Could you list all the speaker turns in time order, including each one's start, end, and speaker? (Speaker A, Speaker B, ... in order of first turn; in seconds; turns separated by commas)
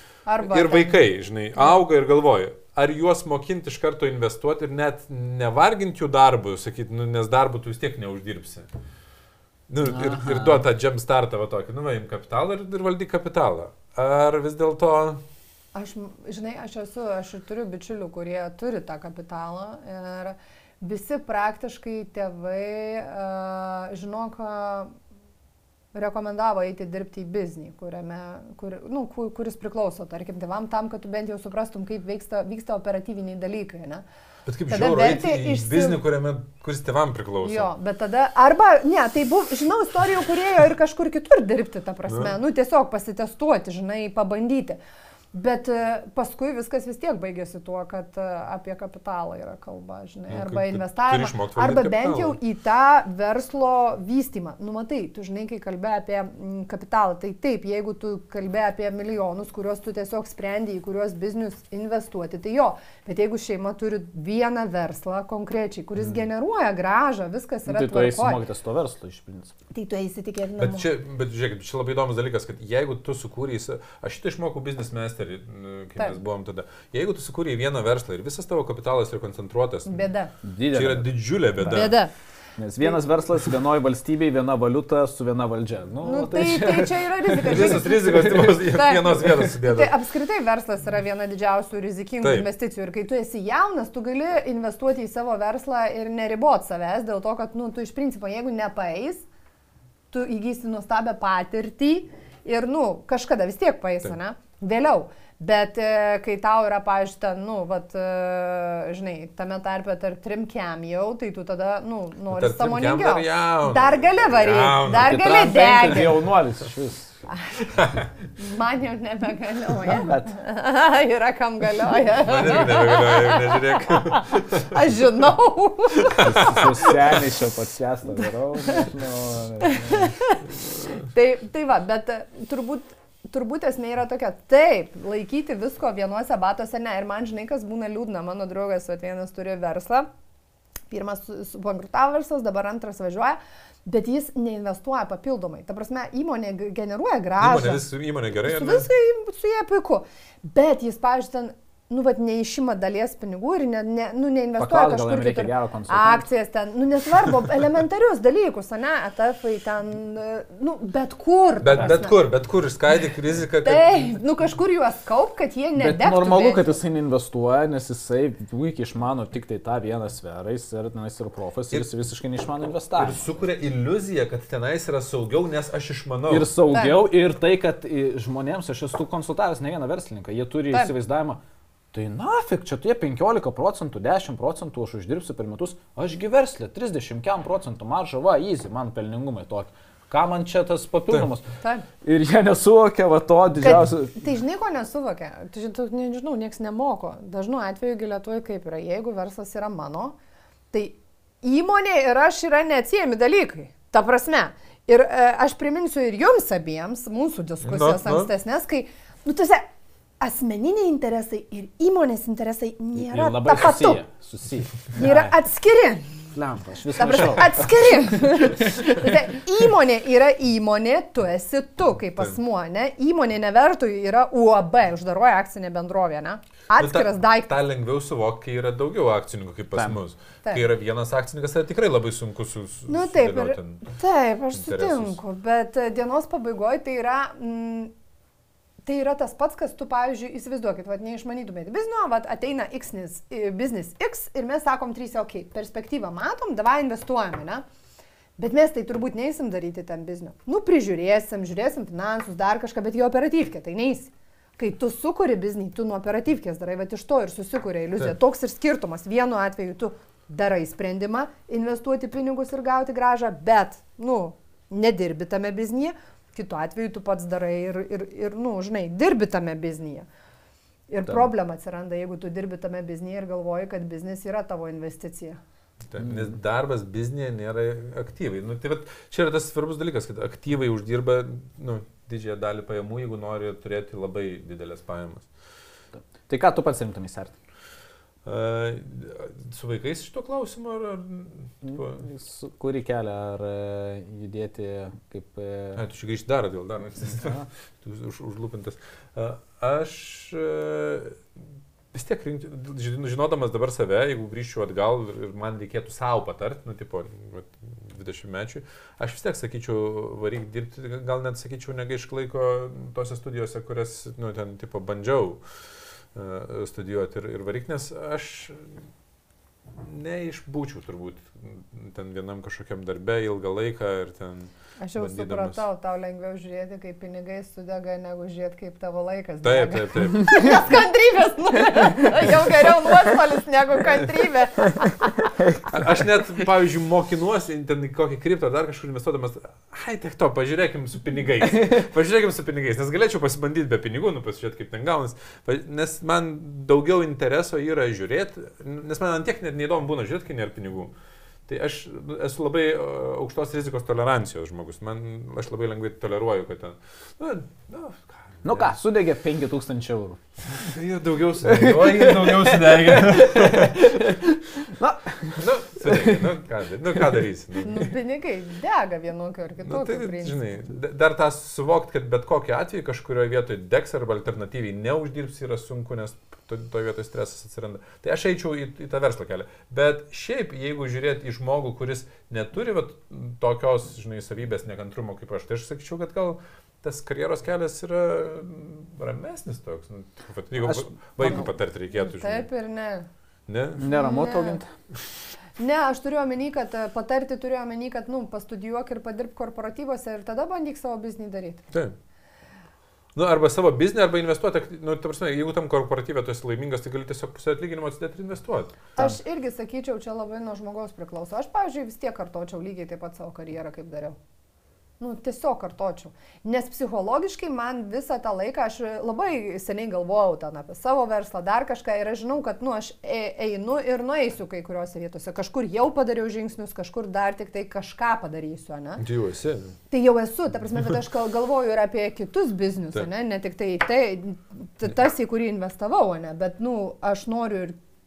Speaker A: 0.3-1.0, Speaker B: 0.4-8.7, Speaker B: 9.7-15.2, Speaker C: 9.8-10.7, Speaker A: 15.7-24.9, Speaker A: 25.9-34.0, Speaker B: 34.5-37.7, Speaker A: 34.7-36.0, Speaker A: 37.4-44.8, Speaker B: 42.1-42.4, Speaker A: 45.3-68.4, Speaker B: 50.3-52.4, Speaker C: 67.7-69.5, Speaker A: 69.7-70.9, Speaker B: 70.6-80.1, Speaker A: 79.9-80.3, Speaker C: 80.4-81.9, Speaker B: 80.7-82.0, Speaker A: 81.7-82.1, Speaker C: 82.6-88.6, Speaker A: 86.0-99.2, Speaker B: 87.5-89.9, Speaker B: 92.2-92.5, Speaker A: 100.1-116.2, Speaker B: 112.3-115.2, Speaker C: 114.9-117.2, Speaker A: 117.3-117.6, Speaker B: 117.7-118.1, Speaker A: 118.4-126.9, Speaker C: 119.9-120.3, Speaker B: 122.2-124.8, Speaker B: 126.1-126.9, Speaker C: 126.2-130.1, Speaker A: 129.6-140.1, Speaker A: 140.9-147.9, Speaker B: 147.4-148.9, Speaker A: 148.4-162.2, Speaker C: 154.6-156.3, Speaker B: 161.6-164.2, Speaker A: 163.6-166.8, Speaker C: 165.8-173.3, Speaker B: 173.0-176.5, Speaker C: 176.3-181.4, Speaker A: 176.7-177.0, Speaker C: 181.9-191.5, Speaker C: 192.0-194.2, Speaker A: 193.6-200.2, Speaker A: 200.7-209.7, Speaker B: 207.6-208.3, Speaker A: 210.2-214.0, Speaker C: 212.9-215.3, Speaker A: 215.0-216.3, Speaker C: 216.3-217.7, Speaker A: 216.9-227.5, Speaker C: 218.3-218.8, Speaker B: 226.8-233.8, Speaker A: 232.9-237.9, Speaker B: 234.5-235.2, Speaker A: 238.8-247.7, Speaker A: 248.4-270.1, Speaker A: 270.9-275.4, Speaker B: 275.9-285.3, Speaker C: 286.0-287.4, Speaker B: 288.2-292.1, Speaker C: 291.6-295.8, Speaker B: 295.8-301.2, Speaker C: 297.1-297.5, Speaker B: 301.9-315.6, Speaker B: 316.1-318.8, Speaker B: 319.7-325.6, Speaker A: 324.8-335.3, Speaker B: 329.4-330.6, Speaker C: 334.7-335.7, Speaker B: 335.7-350.9, Speaker B: 351.5-358.8, Speaker C: 358.4-360.2, Speaker B: 360.6-363.9, Speaker C: 361.4-366.2, Speaker B: 365.4-367.9, Speaker A: 367.6-370.4, Speaker B: 369.6-392.5, Speaker C: 390.7-391.4, Speaker A: 391.9-393.1, Speaker B: 393.5-393.9, Speaker C: 393.8-394.7, Speaker A: 393.9-394.6, Speaker A: 395.6-401.6, Speaker B: 403.1-408.8, Speaker A: 409.0-414.2, Speaker A: 415.0-429.0, Speaker B: 429.0-429.8, Speaker A: 429.9-437.8